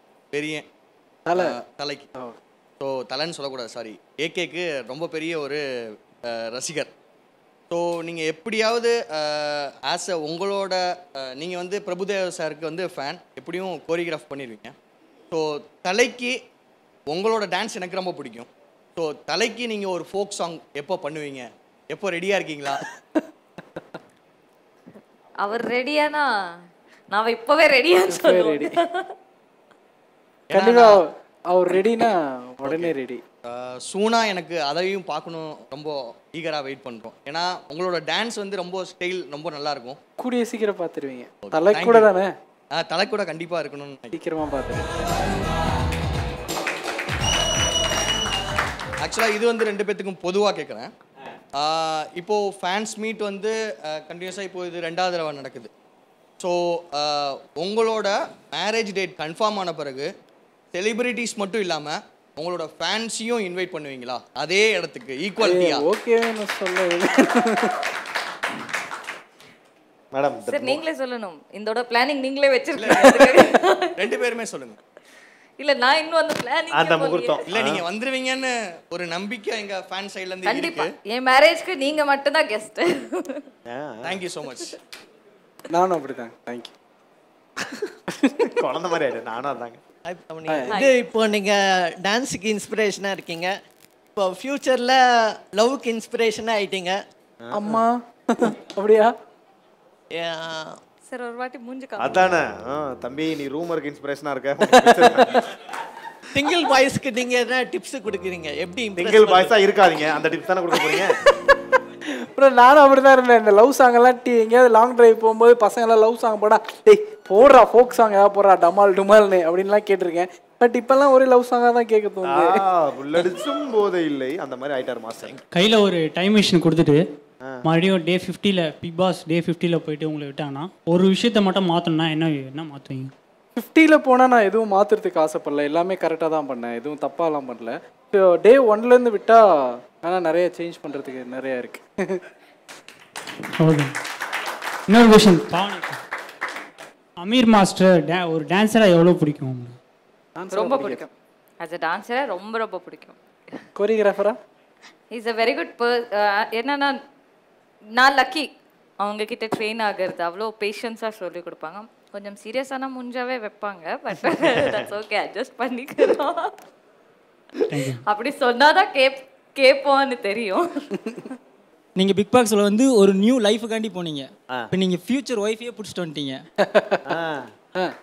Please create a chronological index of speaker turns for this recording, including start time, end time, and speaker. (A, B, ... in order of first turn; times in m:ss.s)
0:00.3-0:00.6 A
0:01.2-0:01.6 B
0:01.4-0:02.1 A
0:02.8-0:05.6 A
0:06.3-0:06.9 A
0:07.7-0:14.8 A
0:15.3-0:16.4 A
0:17.1-0:22.8 A
0:25.4-0:26.2 C
0:27.1-0:29.0 C
0:28.1-0:28.8 B
0:30.5-0:33.2 B
0:30.5-0:31.0 A
0:32.6-0:32.9 A
0:33.4-0:40.0 A
0:40.2-0:42.3 B
0:41.5-0:42.0 A
0:42.7-0:44.1 A
0:44.1-0:44.8 B
0:49.0-0:50.9 A
0:51.6-0:55.7 A
0:56.4-1:00.1 A
1:00.7-1:05.8 A
1:05.4-1:07.9 B
1:10.1-1:10.8 D
1:10.4-1:14.0 C
1:14.0-1:14.8 A
1:15.6-1:17.4 C
1:16.7-1:17.8 D
1:17.5-1:20.9 A
1:20.4-1:23.4 C
1:23.7-1:24.2 D
1:24.0-1:24.7 A
1:25.7-1:26.7 B
1:28.1-1:28.5 B
1:28.6-1:29.8 D
1:30.0-1:33.6 E
1:30.5-1:30.8 B
1:30.7-1:31.0 C
1:34.2-1:37.0 E
1:37.4-1:37.8 D
1:37.5-1:39.1 B
1:40.1-1:40.8 E
1:41.1-1:42.4 C
1:42.0-1:45.4 D
1:46.3-1:49.6 E
1:49.0-1:51.2 D
1:52.2-2:02.6 B
2:02.2-2:05.4 D
2:05.5-2:07.0 F
2:07.6-2:13.1 F
2:13.6-2:22.2 B
2:23.6-2:23.9 F
2:24.9-2:26.0 F
2:27.2-2:29.8 F
2:30.4-2:31.0 B
2:30.5-2:33.2 C
2:33.8-2:34.4 B
2:35.1-2:37.0 C
2:38.0-2:46.5 C
2:47.6-2:50.6 C
2:47.7-2:48.0 F
2:52.0-2:56.4 G
2:56.6-2:57.0 B
2:57.1-2:57.5 D